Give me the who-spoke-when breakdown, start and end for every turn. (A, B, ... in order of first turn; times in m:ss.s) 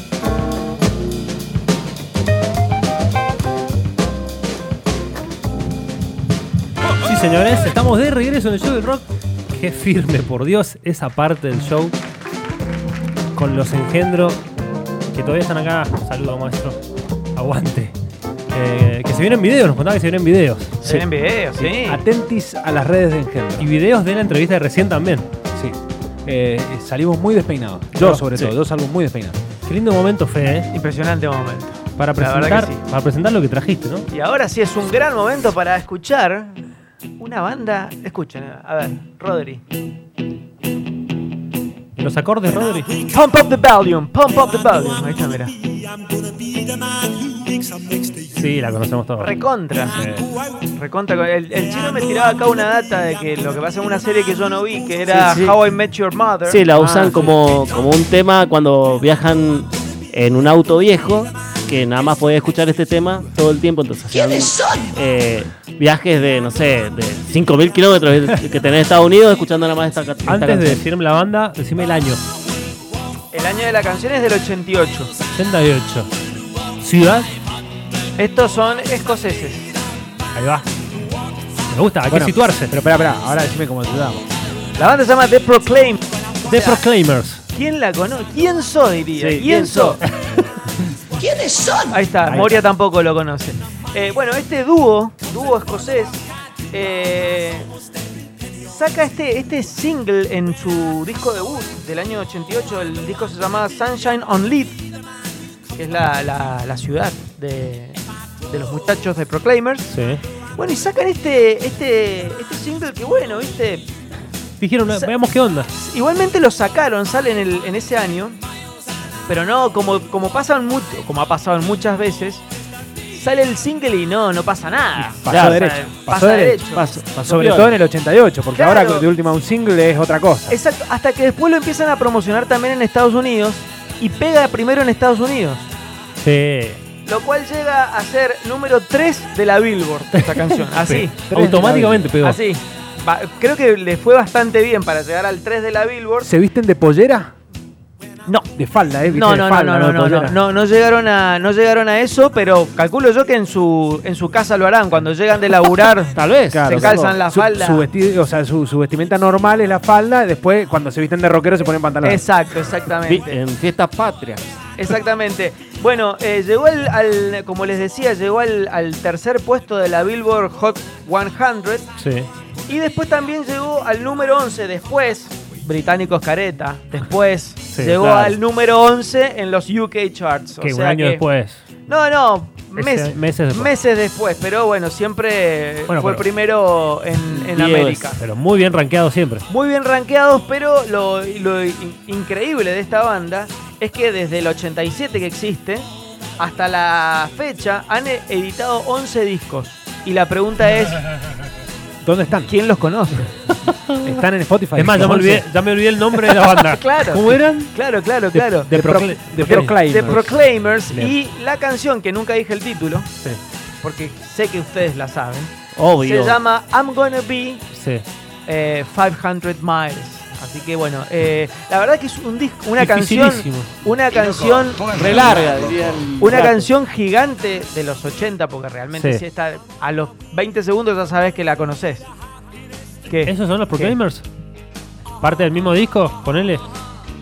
0:07.0-0:12.0 A
0:13.4-0:14.4 A
0:15.1-0:16.8 A
0:17.4-0:18.0 A
0:18.5-0:21.0 A
0:20.8-0:22.0 B
0:21.6-0:23.7 C
0:23.6-0:25.3 A
0:25.5-0:29.4 C
0:28.0-0:28.5 A
0:29.7-0:30.7 A
0:30.7-0:32.8 B
0:32.0-0:34.1 A
0:34.1-0:36.6 B
0:37.2-0:39.6 B
0:42.0-0:42.9 A
0:43.0-0:45.6 B
0:48.2-0:49.3 A
0:49.2-0:50.0 B
0:50.0-0:50.3 A
0:50.6-0:56.6 B
0:55.1-0:55.6 D
0:56.4-1:10.8 D
0:56.7-0:57.3 A
1:10.2-1:12.2 A
1:13.3-1:15.1 B
1:15.4-1:16.1 A
1:16.8-1:17.3 A
1:18.2-1:19.8 B
1:20.3-1:20.7 A
1:21.7-1:22.7 A
1:22.1-1:24.3 C
1:24.8-1:26.8 B
1:26.5-1:27.4 A
1:27.5-1:30.0 B
1:29.2-1:29.9 D
1:31.3-1:31.7 D
1:31.8-1:37.7 B
1:32.3-1:32.6 C
1:38.6-1:44.8 B
1:45.7-1:49.9 B
1:49.9-1:50.2 A
1:50.6-1:53.9 B
1:54.6-1:55.7 A
1:54.9-1:55.1 B
1:55.7-1:58.4 B
1:59.3-2:02.4 B
2:03.1-2:06.8 B
2:05.0-2:06.6 C
2:05.3-2:05.7 D
2:06.7-2:07.7 D
2:07.2-2:10.6 C
2:08.5-2:09.1 B
2:10.5-2:15.7 B
2:16.2-2:16.8 A
2:17.0-2:21.2 B
2:20.1-2:22.4 A
2:21.3-2:22.2 C
2:22.2-2:26.3 B
2:26.2-2:27.3 C
2:28.5-2:30.4 C
2:29.0-2:37.9 B
2:36.2-2:37.0 D
2:36.5-2:42.2 C
2:42.0-2:43.4 B
2:43.0-2:44.4 D
2:44.8-2:51.9 B
2:52.0-2:52.3 A
2:52.7-3:01.2 B
2:57.7-2:58.4 A
3:00.6-3:01.6 A
3:01.9-3:08.2 B
3:02.8-3:03.7 A
3:05.9-3:06.3 A
3:07.3-3:08.1 D
3:08.2-3:09.5 A
3:09.5-3:21.0 B
3:22.0-3:22.5 C
3:22.5-3:23.3 B
3:23.7-3:24.2 A
3:24.0-3:25.4 C
3:24.7-3:27.7 A
3:26.3-3:28.7 B
3:28.3-3:30.3 A
3:28.7-3:30.4 C
3:29.4-3:33.1 B
3:33.8-3:37.6 B
3:35.8-3:36.4 D
3:37.7-3:38.0 A
3:38.5-3:45.5 B
3:42.8-3:43.7 A
3:44.9-3:46.7 D
3:46.2-3:52.1 B
3:49.0-3:49.2 A
3:53.1-3:54.0 B
3:53.2-3:54.3 A
3:55.2-3:56.6 A